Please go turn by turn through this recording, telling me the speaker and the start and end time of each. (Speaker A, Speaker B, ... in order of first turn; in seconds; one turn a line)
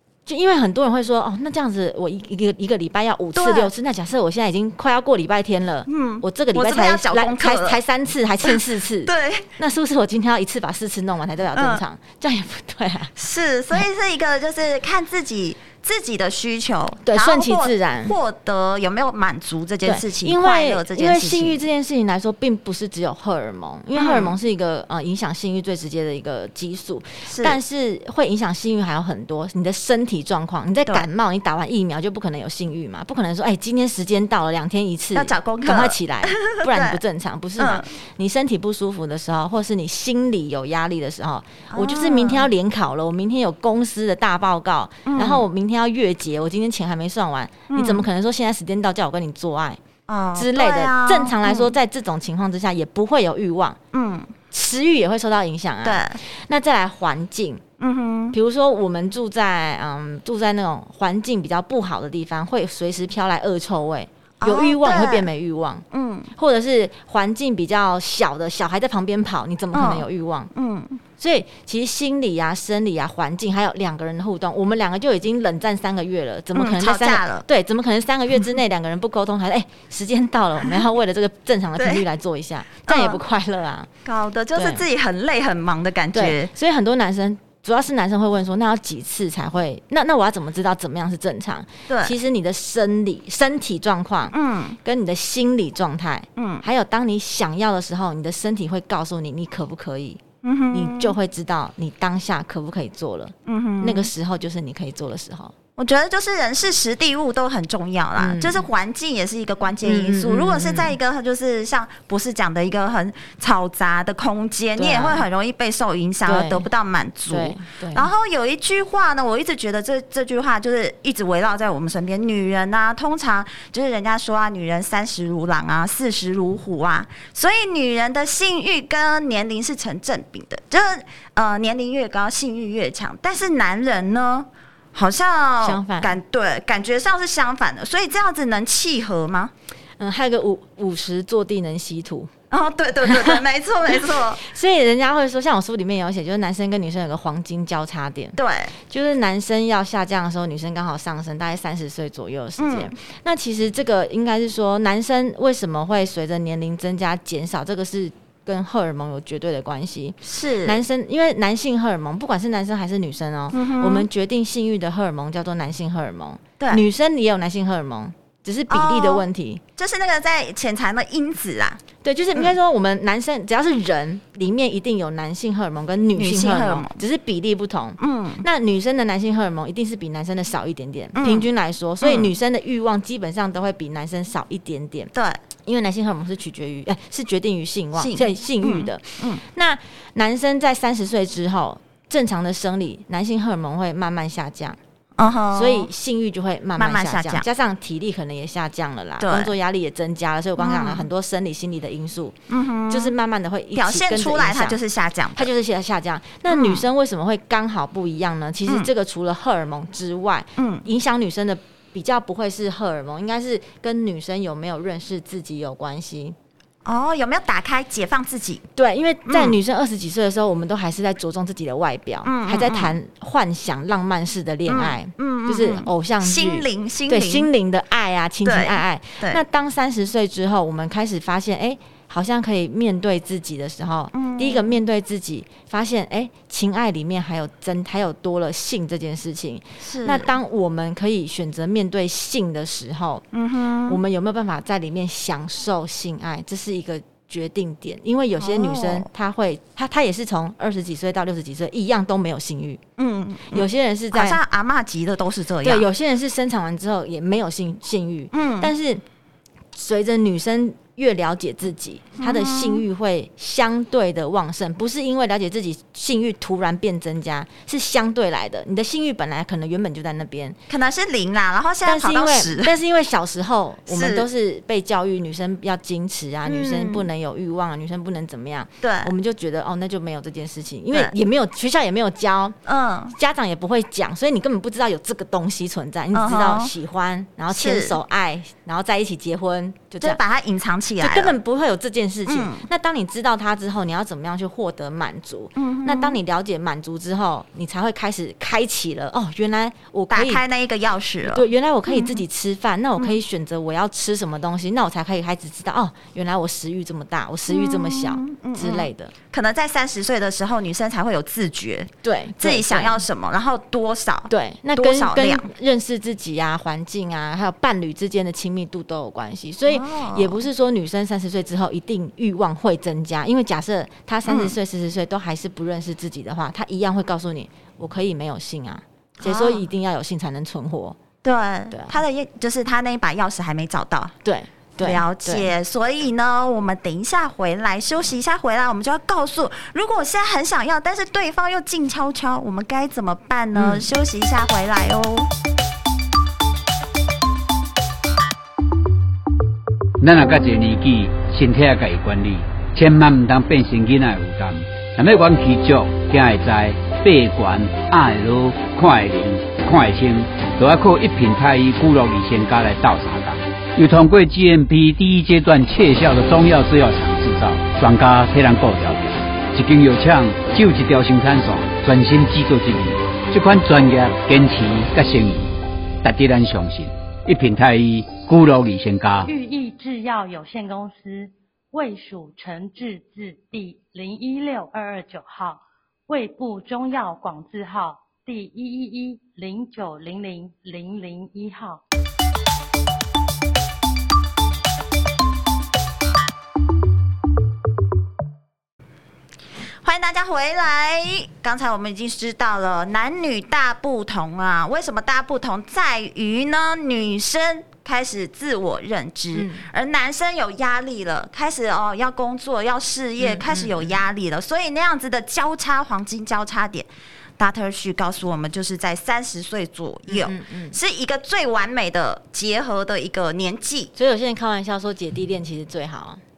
Speaker A: 0.3-13.1
Speaker B: 3.4-3.7
Speaker B: 5.9-7.8
Speaker B: 8.4-9.5
Speaker B: 11.5-11.8
Speaker B: 13.2-21.6
Speaker A: 17.1-18.2
Speaker A: 19.9-49.8
Speaker B: 23.9-24.4
Speaker B: 27.3-27.6
Speaker B: 35.1-37.0
Speaker B: 37.6-37.9
Speaker B: 41.7-42.5
Speaker B: 45.1-45.5
Speaker B: 47.7-48.0
Speaker B: 50.1-51.7
Speaker A: 50.4-53.8
Speaker B: 53.9-54.3
Speaker A: 54.5-57.6
Speaker B: 55.8-56.2
Speaker B: 57.8-58.4
Speaker A: 58.3-70.5
Speaker B: 64.4-65.3
Speaker B: 65.9-66.3
Speaker B: 69.7-71.0
Speaker A: 71.2-83.9
Speaker B: 76.5-77.5
Speaker B: 81.8-82.0
Speaker B: 82.9-83.2
Speaker B: 84.0-86.5
Speaker A: 84.5-84.8
Speaker A: 86.1-100.2
Speaker B: 91.9-92.2
Speaker B: 94.3-94.8
Speaker B: 96.4-96.7
Speaker B: 100.4-101.2
Speaker A: 100.7-105.5
Speaker B: 103.5-104.1
Speaker B: 105.8-139.5
Speaker A: 108.2-108.7
Speaker A: 109.8-111.0
Speaker A: 114.8-115.2
Speaker A: 116.3-116.7
Speaker A: 117.3-118.1
Speaker A: 135.6-136.2
Speaker A: 140.0-142.3
Speaker B: 142.5-144.4
Speaker A: 143.0-169.6
Speaker B: 148.4-148.7
Speaker B: 152.6-152.9
Speaker B: 160.2-160.8
Speaker B: 163.5-164.1
Speaker B: 168.7-169.2
Speaker B: 169.8-171.8
Speaker A: 172.0-185.1
Speaker B: 176.2-177.0
Speaker B: 178.0-178.4
Speaker B: 181.2-181.5
Speaker B: 182.0-182.3
Speaker B: 185.1-185.4
Speaker A: 185.6-194.8
Speaker B: 188.0-189.4
Speaker B: 195.2-195.9
Speaker A: 195.5-202.4
Speaker B: 196.8-197.5
Speaker B: 199.2-199.5
Speaker B: 200.6-201.1
Speaker B: 202.5-203.1
Speaker A: 202.9-204.8
Speaker B: 203.8-205.5
Speaker A: 205.4-216.4
Speaker B: 206.5-206.8
Speaker B: 210.6-210.9
Speaker B: 216.8-218.6
Speaker A: 218.8-243.2
Speaker B: 219.3-219.6
Speaker B: 222.2-223.0
Speaker B: 224.7-227.5
Speaker B: 228.4-229.4
Speaker B: 234.1-234.8
Speaker B: 239.8-240.3
Speaker B: 243.3-244.0
Speaker A: 243.9-252.8
Speaker B: 248.4-249.1
Speaker B: 253.0-255.9
Speaker A: 253.5-254.4
Speaker A: 255.6-259.0
Speaker B: 258.3-258.7
Speaker A: 259.7-270.6
Speaker B: 262.2-262.8
Speaker B: 270.7-272.7
Speaker A: 271.9-282.6
Speaker B: 273.9-274.3
Speaker B: 276.4-277.1
Speaker B: 278.8-279.1
Speaker B: 282.7-283.1
Speaker A: 283.1-290.2
Speaker B: 286.1-286.7
Speaker B: 287.5-288.0
Speaker B: 290.0-291.4
Speaker A: 291.0-300.4
Speaker B: 292.3-292.7
Speaker B: 295.6-296.2
Speaker B: 300.1-302.2
Speaker A: 301.2-309.1
Speaker B: 307.5-315.5
Speaker A: 312.0-313.0
Speaker A: 314.3-331.0
Speaker B: 319.7-320.4
Speaker B: 324.3-324.6
Speaker B: 329.2-329.6
Speaker B: 331.2-334.2
Speaker A: 331.7-332.0
Speaker A: 334.2-335.5
Speaker B: 334.8-345.3
Speaker A: 343.5-343.9
Speaker C: 350.0-379.3
Speaker D: 379.2-391.8
Speaker B: 399.6-416.9
Speaker A: 409.3-409.6
Speaker A: 413.2-414.0
Speaker B: 417.4-423.9
Speaker A: 420.1-420.8
Speaker A: 424.0-426.2